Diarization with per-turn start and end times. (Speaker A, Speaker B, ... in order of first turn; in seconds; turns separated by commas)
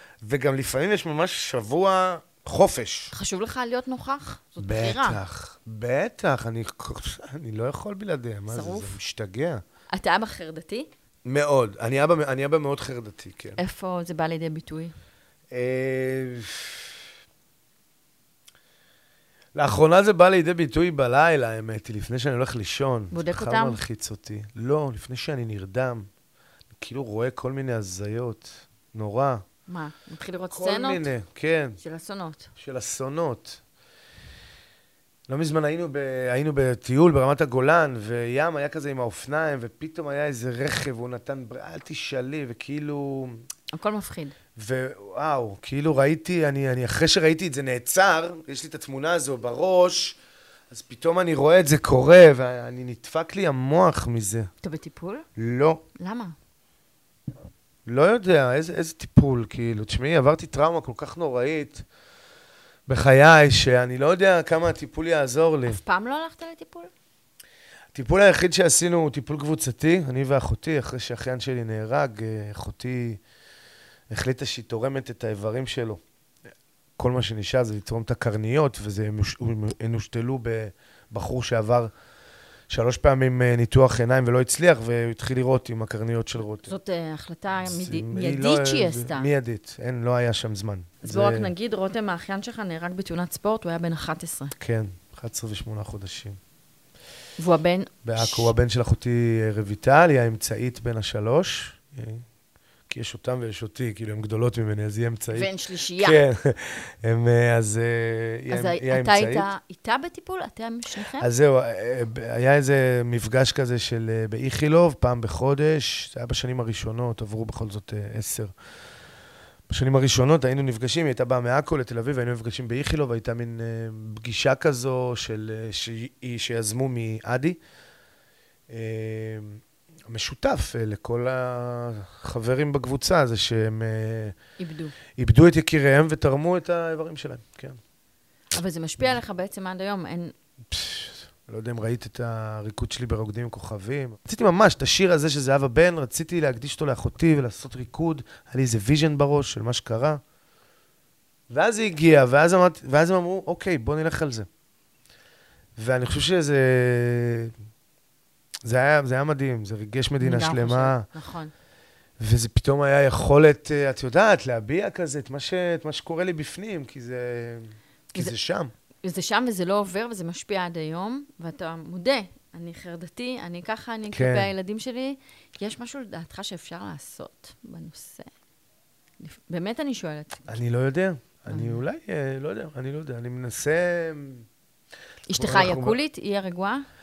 Speaker A: 0.2-3.1, Speaker B: 3.1-5.2, Speaker A: 4.6-9.6, Speaker B: 8.5-9.0, Speaker B: 9.9-10.9, Speaker A: 11.2-13.6, Speaker B: 13.6-14.9, Speaker A: 15.5-16.9, Speaker A: 19.5-26.1, Speaker B: 23.1-23.8, Speaker A: 26.8-29.4, Speaker B: 29.7-31.1, Speaker A: 30.5-31.8, Speaker B: 31.8-32.5, Speaker A: 32.5-33.6, Speaker A: 35.3-43.4, Speaker B: 43.7-44.3, Speaker A: 44.5-50.2, Speaker A: 50.7-54.5, Speaker B: 54.6-55.2, Speaker A: 55.4-55.8, Speaker B: 56.0-56.3, Speaker A: 57.9-61.8, Speaker A: 62.9-65.8, Speaker B: 65.7-66.9, Speaker A: 67.9-73.2, Speaker A: 74.1-76.0, Speaker A: 77.0-81.9, Speaker A: 82.7-86.7, Speaker B: 86.6-89.3, Speaker A: 87.6-91.5, Speaker B: 91.0-94.5, Speaker A: 94.6-96.4, Speaker B: 97.4-98.5, Speaker A: 98.0-102.2, Speaker A: 102.9-109.5, Speaker B: 105.3-106.2, Speaker B: 108.5-111.3, Speaker A: 111.2-118.5, Speaker A: 119.7-127.6, Speaker A: 128.7-134.3, Speaker B: 134.6-134.9, Speaker A: 135.2-137.8, Speaker B: 138.5-140.3, Speaker A: 140.7-150.2, Speaker A: 151.5-154.5, Speaker A: 155.8-157.5, Speaker A: 158.6-161.1, Speaker B: 160.2-161.5, Speaker A: 162.2-168.7, Speaker B: 169.0-178.3, Speaker A: 174.1-174.5, Speaker B: 179.2-180.6, Speaker A: 180.5-184.5, Speaker B: 181.5-181.8, Speaker B: 185.3-186.8, Speaker A: 185.3-186.0